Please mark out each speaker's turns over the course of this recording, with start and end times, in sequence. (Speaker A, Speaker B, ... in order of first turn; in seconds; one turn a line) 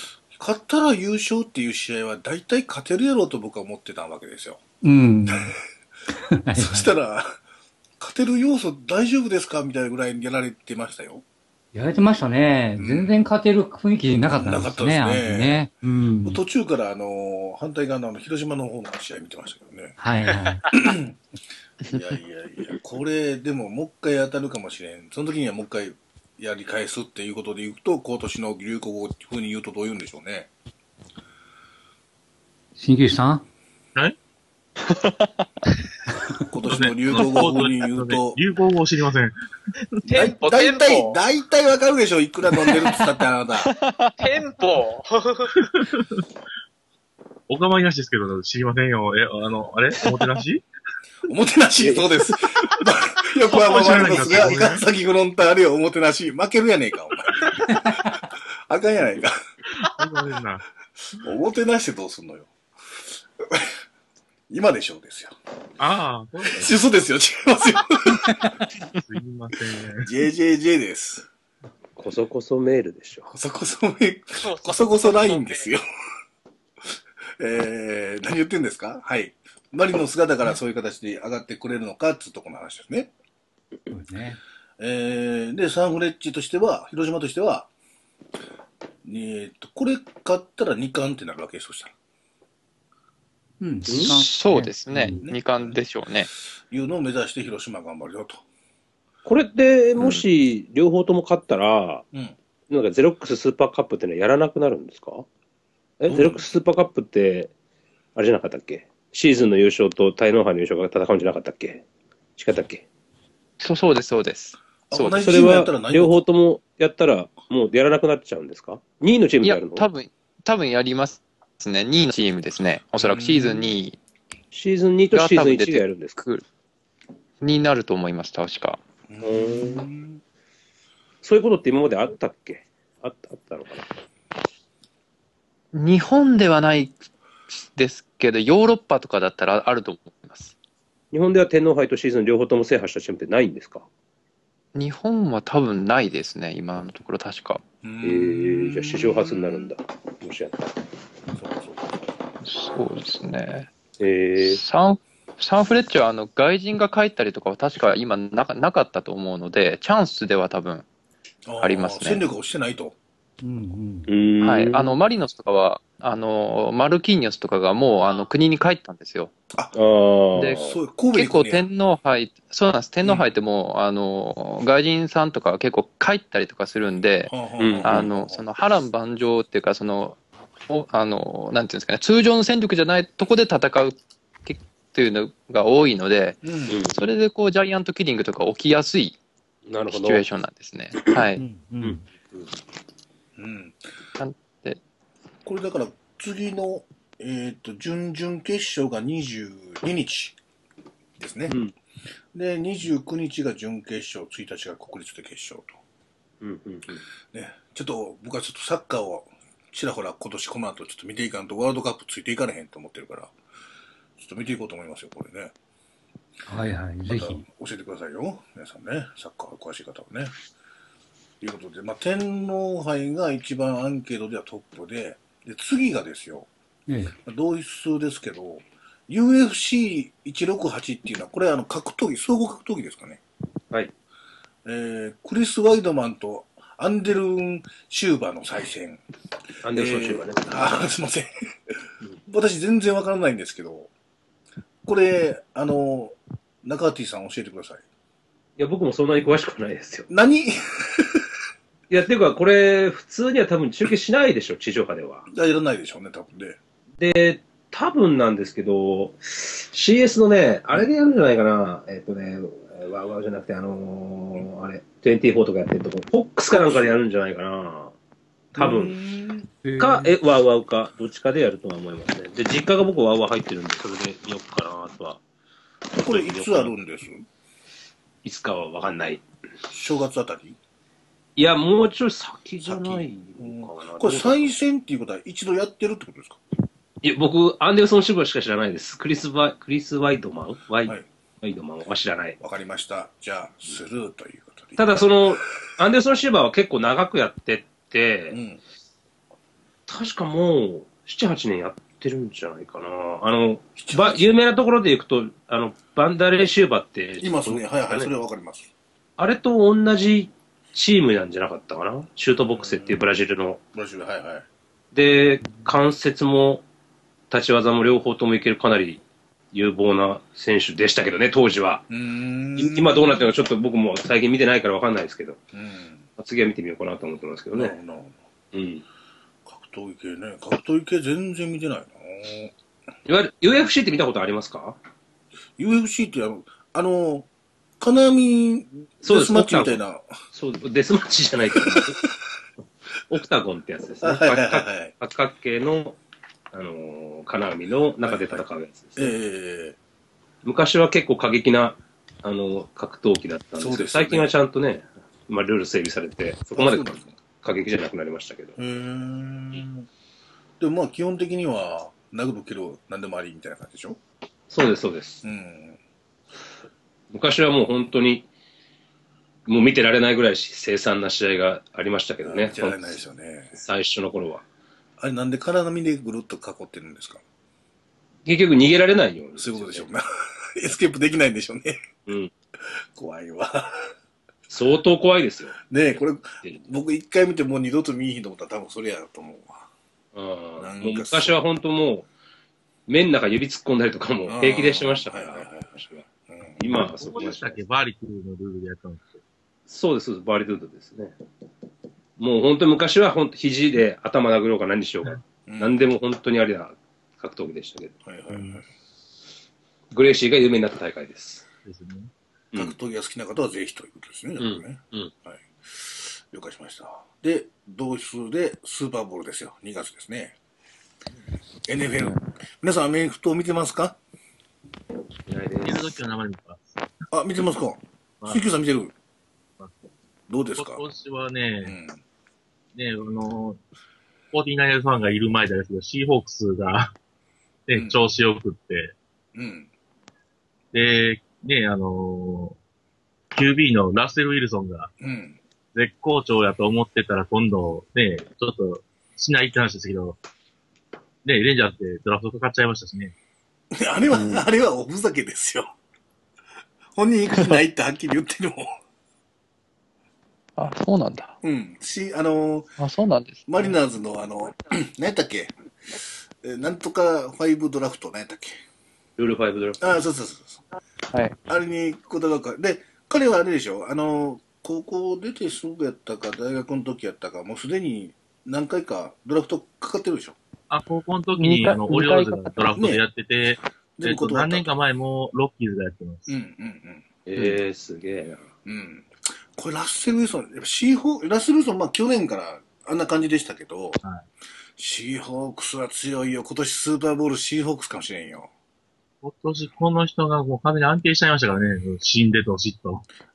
Speaker A: 0.3-4.6
Speaker B: 4.8-5.5
Speaker B: 6.2-6.9
Speaker A: 6.5-7.4
Speaker A: 8.0-11.2
Speaker B: 11.7-16.4
Speaker A: 12.8-13.2
Speaker A: 14.4-15.6
Speaker A: 16.2-19.9
Speaker B: 20.0-20.6
Speaker A: 20.7-21.2
Speaker A: 21.8-30.5
Speaker B: 32.8-33.4
Speaker A: 36.4-38.4
Speaker C: 36.7-39.4
Speaker D: 40.1-41.2
Speaker A: 40.1-43.7
Speaker E: 43.8-44.1
Speaker D: 44.2-45.5
Speaker C: 45.6-46.2
Speaker C: 47.5-50.6
Speaker A: 51.2-58.1
Speaker F: 51.8-52.4
Speaker C: 53.5-54.8
Speaker A: 58.7-59.4
Speaker C: 59.8-60.6
Speaker A: 61.1-62.5
Speaker A: 63.4-63.7
Speaker A: 64.5-65.3
Speaker C: 65.8-66.7
Speaker A: 66.5-68.5
Speaker C: 69.0-70.1
Speaker A: 70.0-71.3
Speaker F: 72.0-73.3
Speaker A: 73.3-75.8
Speaker D: 74.4-75.7
Speaker A: 77.4-83.1
Speaker B: 83.9-84.4
Speaker A: 84.8-87.7
Speaker A: 89.0-91.9
Speaker B: 93.6-95.2
Speaker F: 93.9-94.2
Speaker E: 93.9-96.3
Speaker A: 95.2-95.8
Speaker A: 96.7-98.4
Speaker F: 99.2-102.0
Speaker E: 100.0-100.2
Speaker F: 102.7-105.2
Speaker F: 106.0-107.5
Speaker A: 106.1-106.4
Speaker F: 108.2-111.8
Speaker F: 112.4-112.8
Speaker E: 113.6-115.2
Speaker A: 114.9-116.2
Speaker F: 115.1-119.9
Speaker E: 119.4-124.0
Speaker A: 122.9-123.7
Speaker F: 124.5-126.2
Speaker E: 125.1-126.4
Speaker E: 127.4-128.8
Speaker A: 129.1-130.2
Speaker F: 129.2-129.9
Speaker F: 131.2-133.9
Speaker E: 135.7-140.5
Speaker F: 141.1-143.9
Speaker E: 144.7-147.6
Speaker A: 147.8-149.7
Speaker F: 148.0-150.7
Speaker A: 151.3-151.9
Speaker E: 152.4-153.7
Speaker F: 154.0-154.6
Speaker E: 154.4-160.8
Speaker A: 161.4-162.9
Speaker E: 161.6-162.2
Speaker B: 163.4-164.1
Speaker F: 164.1-164.9
Speaker E: 164.4-169.3
Speaker D: 168.0-168.3
Speaker F: 169.7-170.7
Speaker A: 170.6-171.6
Speaker E: 171.1-189.2
Speaker A: 173.0-173.3
Speaker A: 177.3-178.4
Speaker F: 177.6-178.1
Speaker A: 186.4-186.8
Speaker F: 186.7-187.0
Speaker F: 189.7-190.2
Speaker E: 189.9-191.4
Speaker B: 191.4-192.0
Speaker F: 191.8-192.5
Speaker A: 193.4-193.8
Speaker E: 194.2-194.8
Speaker A: 195.4-200.3
Speaker A: 201.2-201.6
Speaker A: 202.3-205.8
Speaker F: 206.4-207.0
Speaker A: 207.3-213.3
Speaker A: 214.2-215.5
Speaker B: 216.5-217.4
Speaker A: 217.1-220.3
Speaker A: 221.4-226.5
Speaker B: 226.9-227.1
Speaker A: 227.2-233.2
Speaker A: 234.7-239.0
Speaker F: 239.6-240.4
Speaker A: 239.7-241.3
Speaker A: 242.3-243.9
Speaker A: 244.8-247.8
Speaker F: 248.6-250.1
Speaker A: 250.1-251.2
Speaker F: 251.9-255.3
Speaker A: 255.3-256.6
Speaker F: 257.0-267.9
Speaker A: 266.5-266.9
Speaker A: 268.5-269.5
Speaker F: 268.6-269.0
Speaker B: 269.6-270.1
Speaker F: 269.8-275.2
Speaker F: 275.9-276.7
Speaker A: 276.0-277.2
Speaker F: 278.2-279.2
Speaker A: 279.7-280.6
Speaker F: 281.4-284.5
Speaker A: 282.6-286.4
Speaker F: 287.0-292.4
Speaker A: 292.4-294.9
Speaker F: 294.8-298.4
Speaker A: 298.3-298.6
Speaker F: 299.9-308.1
Speaker A: 303.8-304.3
Speaker A: 307.2-308.7
Speaker F: 309.2-313.6
Speaker A: 312.6-313.0
Speaker A: 313.7-314.5
Speaker F: 314.9-316.6
Speaker F: 317.3-319.0
Speaker F: 319.5-321.9
Speaker A: 321.9-323.3
Speaker F: 322.6-325.4
Speaker A: 325.5-326.0
Speaker F: 326.2-327.7
Speaker A: 327.5-328.2
Speaker F: 328.5-328.8
Speaker A: 329.4-332.5
Speaker F: 333.1-334.8
Speaker A: 335.6-337.3
Speaker A: 337.8-340.1
Speaker F: 339.0-339.8
Speaker F: 340.3-342.1
Speaker A: 341.5-341.9
Speaker F: 343.1-346.0
Speaker A: 344.0-344.9
Speaker F: 346.5-349.1
Speaker A: 348.0-348.4
Speaker A: 349.0-349.8
Speaker F: 350.4-356.9
Speaker A: 353.6-354.3
Speaker A: 356.6-357.1
Speaker F: 357.4-358.6
Speaker A: 358.6-359.9
Speaker A: 360.6-364.0
Speaker F: 364.5-365.2
Speaker A: 365.2-365.8
Speaker F: 367.1-368.3
Speaker F: 369.4-373.0
Speaker A: 372.2-373.6
Speaker F: 373.6-374.4
Speaker A: 375.0-377.2
Speaker F: 378.2-379.9
Speaker A: 379.4-381.8
Speaker F: 382.1-382.3
Speaker A: 382.9-383.9
Speaker F: 384.5-385.7
Speaker A: 385.7-389.7
Speaker F: 386.4-386.7
Speaker F: 390.1-392.1
Speaker A: 390.6-391.4
Speaker F: 392.9-396.0
Speaker A: 394.3-396.8
Speaker F: 396.6-397.6
Speaker C: 396.8-399.2
Speaker F: 399.7-401.1
Speaker F: 402.2-407.9
Speaker A: 405.5-405.8
Speaker A: 408.0-408.6
Speaker C: 408.3-408.6
Speaker F: 409.9-411.4
Speaker C: 411.6-412.1
Speaker A: 412.5-420.4
Speaker F: 414.4-415.1
Speaker A: 421.6-424.0
Speaker F: 425.3-425.9
Speaker C: 425.6-426.8
Speaker A: 427.1-428.9
Speaker A: 430.3-430.9
Speaker C: 430.6-431.8
Speaker A: 431.6-432.0
Speaker C: 432.7-433.6
Speaker C: 434.3-436.9
Speaker C: 437.7-438.9
Speaker A: 437.7-438.0
Speaker A: 439.3-439.7
Speaker C: 440.7-442.6
Speaker C: 443.3-444.9
Speaker A: 445.0-445.4
Speaker C: 445.7-450.2
Speaker C: 451.2-453.1
Speaker A: 453.7-455.7
Speaker E: 454.1-454.5
Speaker A: 456.9-458.7
Speaker E: 460.6-461.4
Speaker A: 461.4-462.7
Speaker E: 462.8-463.7
Speaker A: 463.5-465.5
Speaker A: 466.4-468.6
Speaker F: 469.2-469.9
Speaker A: 469.8-470.6
Speaker E: 471.1-471.4
Speaker A: 471.5-480.4
Speaker C: 480.7-486.3
Speaker E: 481.4-482.7
Speaker A: 482.8-483.0
Speaker A: 484.0-484.8
Speaker A: 486.3-487.1
Speaker F: 487.2-488.4
Speaker A: 488.6-494.0
Speaker A: 494.8-498.5
Speaker C: 499.2-503.0